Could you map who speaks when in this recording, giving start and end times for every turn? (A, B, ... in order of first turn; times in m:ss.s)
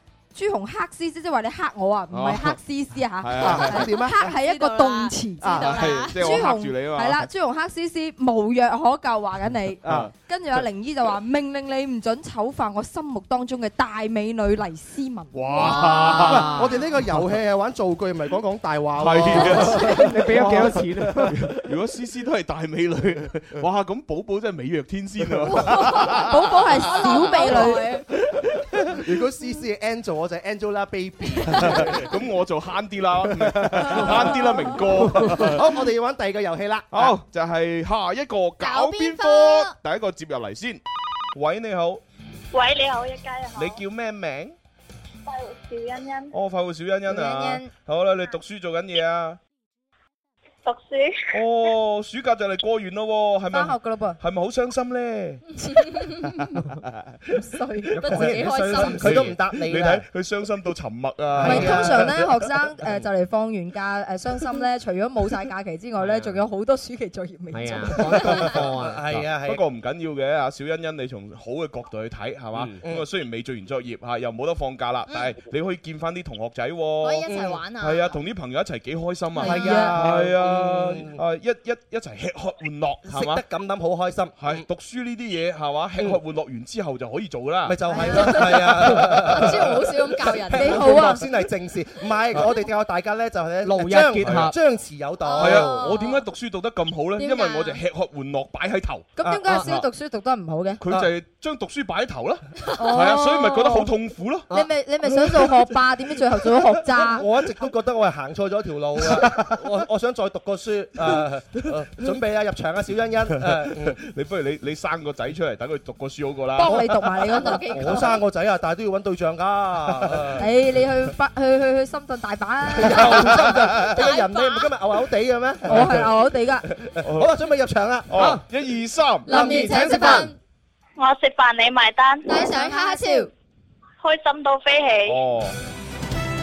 0:00.3-0:16.0 A
0:02.1-0:02.6 B
0:03.2-0:03.8 B
0:03.4-0:04.2 C
0:03.6-0:06.5 D
0:05.4-0:05.9 C
0:05.8-0:07.3 B
0:09.8-0:10.1 C
0:09.8-0:10.1 B
0:15.3-0:16.6 B
0:15.6-0:16.7 E
0:16.0-0:20.8 C
0:19.0-0:20.8 B
0:20.1-0:21.4 E
0:21.3-0:26.4 B
0:25.6-0:27.9 A
0:25.6-0:26.1 D
0:26.8-0:28.0 D
0:28.3-0:28.6 B
0:28.9-0:32.0 C
0:31.6-0:35.7 B
0:33.4-0:37.2 C
0:36.9-0:40.8 B
0:38.6-0:39.8 D
0:41.3-0:42.0 B
0:42.5-0:43.8 F
0:43.6-0:44.6 B
0:45.3-0:46.3 F
0:46.3-0:49.4 B
0:47.1-0:47.7 A
0:50.6-0:51.4 F
0:51.3-0:55.4 B
0:53.5-0:54.2 A
0:56.9-0:57.4 B
0:57.3-0:58.0 A
0:57.9-1:02.3 B
0:58.0-1:00.0 C
0:58.1-0:58.9 D
0:59.0-0:59.3 E
1:01.4-1:02.0 C
1:01.4-1:08.6 A
1:07.5-1:09.1 E
1:08.3-1:09.6 C
1:09.1-1:23.4 B
1:12.5-1:12.8 E
1:15.1-1:15.4 D
1:17.0-1:18.2 D
1:17.3-1:17.6 C
1:19.4-1:21.2 C
1:19.4-1:19.7 D
1:19.4-1:20.0 A
1:23.1-1:24.7 C
1:24.4-1:29.7 B
1:27.6-1:29.8 C
1:27.9-1:28.5 A
1:29.5-1:30.8 D
1:30.4-1:35.8 C
1:30.5-1:31.2 A
1:33.6-1:34.6 E
1:34.2-1:34.5 B
1:35.2-1:36.2 D
1:35.4-1:39.8 B
1:37.2-1:37.8 D
1:39.2-1:40.8 A
1:40.8-1:44.5 B
1:42.8-1:43.9 A
1:44.5-1:47.2 A
1:47.1-1:54.0 C
1:53.4-1:56.8 B
1:56.6-1:57.7 A
1:57.2-1:58.2 D
1:57.7-2:00.4 C
2:00.0-2:00.3 B
2:00.4-2:03.8 A
2:02.8-2:06.1 C
2:03.3-2:03.9 B
2:04.0-2:04.7 D
2:05.6-2:06.7 A
2:06.8-2:08.4 C
2:07.0-2:07.3 B
2:08.1-2:10.2 B
2:08.2-2:08.4 E
2:09.3-2:10.3 C
2:09.3-2:10.4 D
2:11.0-2:12.6 F
2:12.3-2:13.3 D
2:12.4-2:13.3 A
2:14.0-2:15.2 F
2:15.1-2:15.6 B